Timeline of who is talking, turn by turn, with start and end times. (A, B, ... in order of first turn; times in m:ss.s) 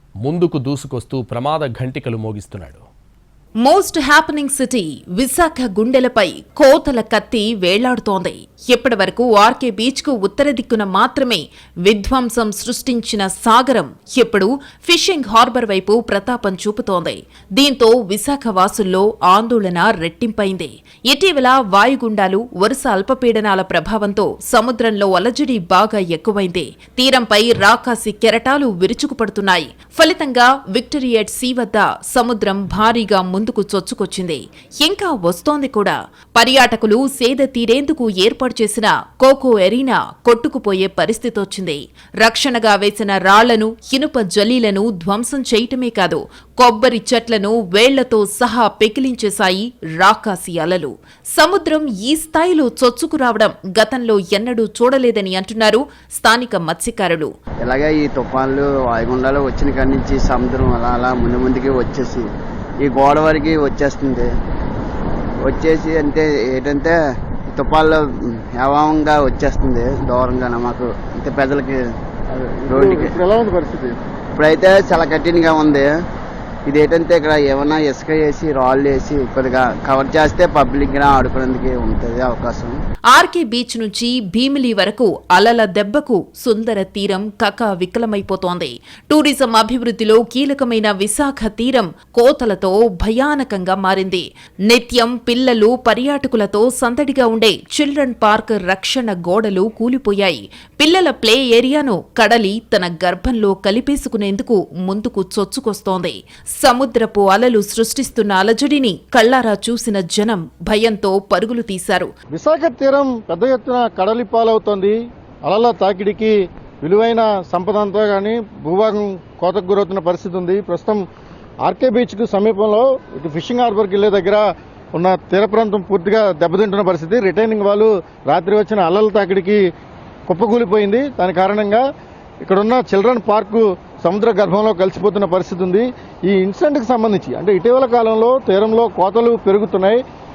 0:00.2-0:02.8 A
0:03.6-0:57.3 B
0:57.6-1:02.3 C
1:02.8-1:04.3 C
1:05.4-1:06.9 C
1:07.5-1:11.8 C
1:12.4-1:13.2 C
1:12.7-1:13.9 D
1:14.4-1:15.9 C
1:16.7-1:22.8 C
1:23.1-1:52.1 B
1:52.3-2:01.0 D
2:01.6-2:04.4 D
2:04.9-2:09.6 D
2:10.3-2:11.8 D
2:12.4-2:20.0 D